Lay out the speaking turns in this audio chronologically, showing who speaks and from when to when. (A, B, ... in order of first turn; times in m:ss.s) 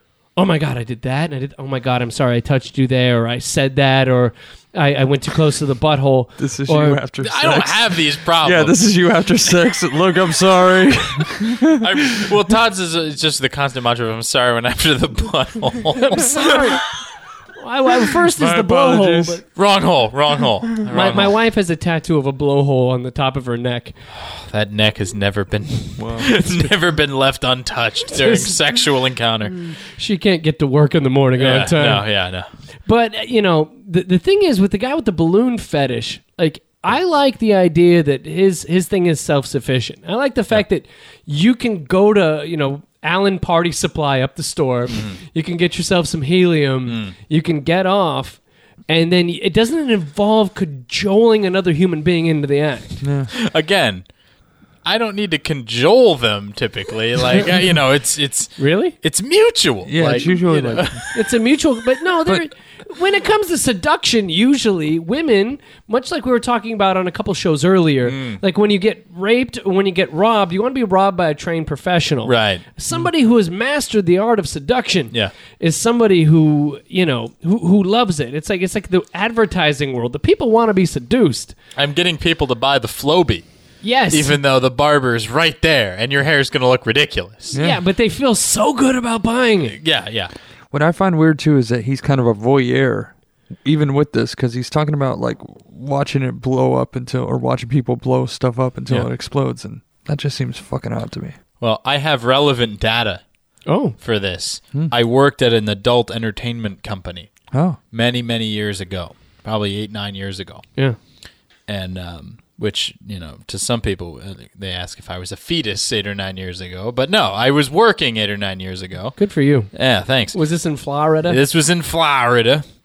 0:00.4-0:07.0 A
0:06.4-0:12.2 B
0:07.2-0:08.8 C
0:11.8-0:16.4 C
0:16.0-0:16.8 A
0:17.6-0:19.4 A
0:18.3-0:19.4 B
0:19.6-0:21.4 C
0:20.9-0:24.0 A
0:24.2-0:29.7 C
0:26.0-0:26.4 B
0:28.2-0:28.5 A
0:29.9-0:32.0 A
0:31.4-0:32.5 C
0:32.9-0:53.0 A
0:44.9-0:45.2 C
0:46.9-0:47.2 C
0:53.0-0:53.3 B
0:53.3-0:54.1 C
0:54.8-1:01.3 C
0:58.6-0:59.0 A
0:59.8-1:01.0 B
1:01.2-1:21.6 A
1:08.0-1:08.4 C
1:12.2-1:12.6 C
1:21.8-1:23.5 C
1:23.8-1:24.3 A
1:24.1-1:27.6 C
1:27.5-1:27.8 B
1:27.5-1:29.8 A
1:29.8-1:30.3 C
1:30.7-1:33.1 B
1:33.6-1:41.4 B
1:41.6-1:43.2 C
1:43.7-1:44.0 A
1:44.0-1:47.3 C
1:47.5-1:47.8 B
1:47.9-1:50.6 C
1:51.7-1:59.2 C
1:59.2-1:59.7 A
1:59.7-2:00.4 C
2:00.3-2:01.4 A
2:01.3-2:02.6 C